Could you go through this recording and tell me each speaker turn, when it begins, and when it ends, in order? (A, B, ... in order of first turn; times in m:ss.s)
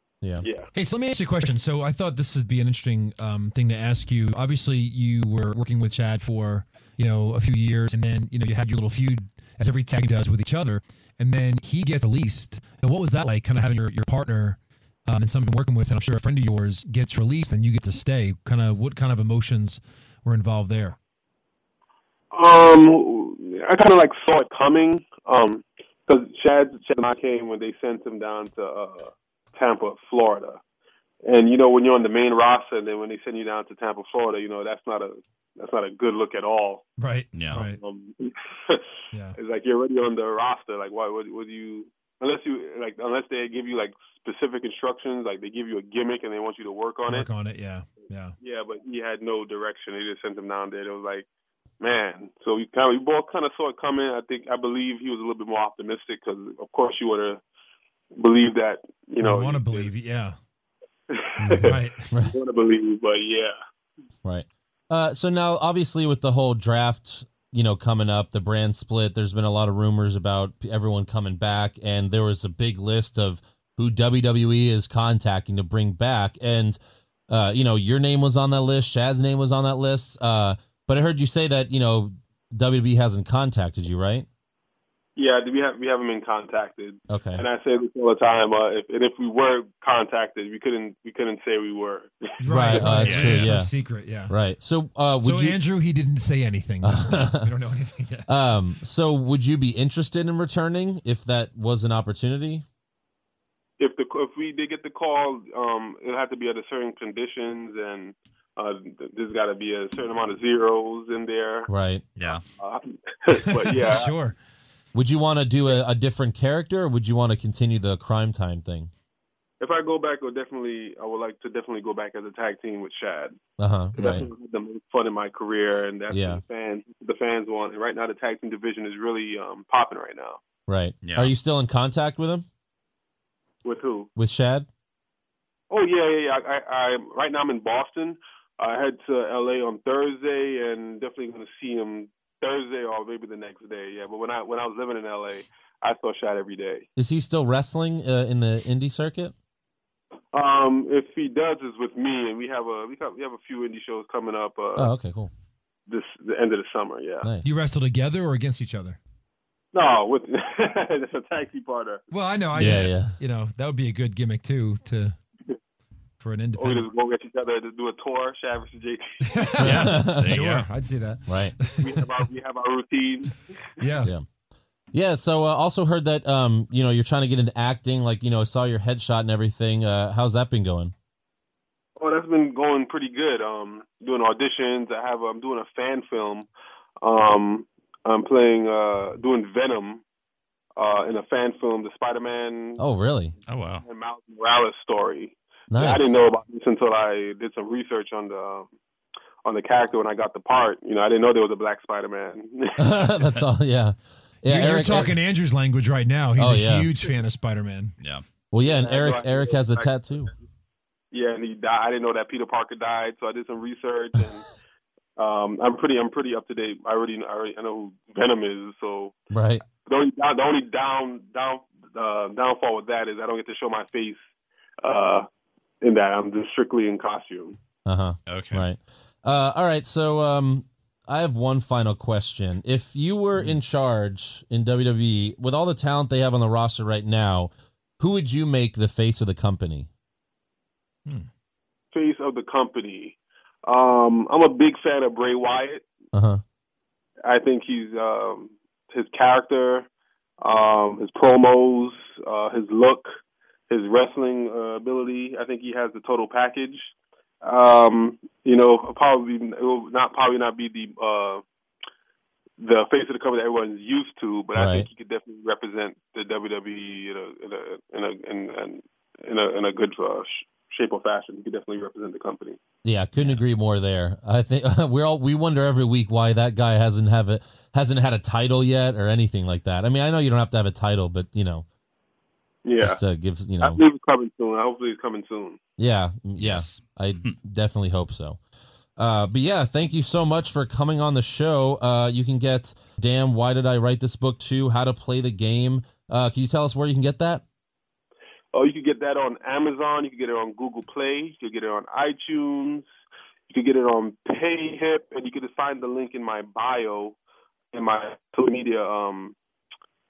0:00.4-0:00.7 A
0:00.7-0:21.0 B
0:22.3-0:30.6 A
0:31.2-0:36.9 A
0:37.0-0:37.8 B
0:37.3-0:37.6 C
0:37.5-0:38.8 A
0:39.4-0:47.3 A
0:47.1-0:48.3 B
0:48.4-0:51.2 A
0:51.8-0:57.4 A
0:58.1-0:59.9 A
0:59.2-1:00.4 B
1:01.1-1:03.5 A
1:01.4-1:02.1 B
1:04.2-1:16.8 D
1:17.3-1:24.2 D
1:25.2-1:32.1 A
1:27.1-1:27.4 D
1:32.4-1:34.3 B
1:32.5-1:33.7 D
1:32.6-1:33.1 A
1:33.0-1:33.5 C
1:34.3-1:35.6 D
1:35.2-1:38.3 B
1:36.8-1:37.6 D
1:38.3-1:42.6 D
1:43.8-1:51.7 A
1:51.7-1:52.0 D
1:52.2-1:52.4 C
1:52.6-1:54.1 A
1:53.5-1:54.4 B
1:54.9-1:58.9 D
1:59.6-2:03.4 A
2:03.6-2:04.2 D
2:03.9-2:10.4 A
2:06.1-2:06.4 D
2:10.7-2:12.4 D
2:11.0-2:11.3 C
2:13.6-2:14.1 A
2:14.2-2:14.7 D
2:15.7-2:26.9 A
2:27.0-2:29.3 D
2:30.3-2:34.9 A
2:34.8-2:35.3 D
2:35.9-2:37.3 A
2:37.4-2:39.0 B
2:39.7-2:42.0 A
2:42.1-2:45.2 B
2:42.5-2:43.1 D
2:46.2-2:46.8 B
2:46.6-2:49.5 A
2:49.2-2:52.0 B
2:49.6-2:50.4 D
2:49.6-2:50.7 C
2:51.3-2:51.5 D
2:51.8-2:53.4 A
2:53.8-2:54.1 B
2:54.9-3:00.9 D
3:02.0-3:06.5 A
3:07.0-3:10.0 A
3:10.8-3:12.8 A
3:12.8-3:13.3 D
3:13.5-3:13.8 C
3:13.8-3:18.7 A
3:15.7-3:16.1 D
3:19.4-3:23.1 A
3:22.8-3:25.2 D
3:24.4-3:27.9 B
3:26.4-3:26.9 D
3:28.5-3:30.3 D
3:28.6-3:30.3 A
3:31.1-3:34.4 A
3:35.2-3:39.2 A
3:39.3-3:39.6 D
3:39.8-3:44.2 A
3:44.8-3:45.2 A
3:45.8-3:47.6 A
3:47.8-3:59.9 D
3:48.3-3:48.6 C
4:01.9-4:05.8 A
4:06.1-4:06.4 D
4:07.2-4:09.9 A
4:10.4-4:13.1 A
4:13.7-4:16.9 A
4:17.4-4:21.4 A
4:22.6-4:32.6 A
4:24.5-4:24.9 D
4:32.8-4:41.6 D
4:42.6-4:43.0 A
4:42.8-4:43.8 D
4:43.6-4:45.6 A
4:45.8-4:48.4 D
4:46.4-4:47.4 C
4:49.0-4:57.4 D
4:58.5-5:02.9 A
5:03.5-5:07.2 A
5:07.7-5:09.3 A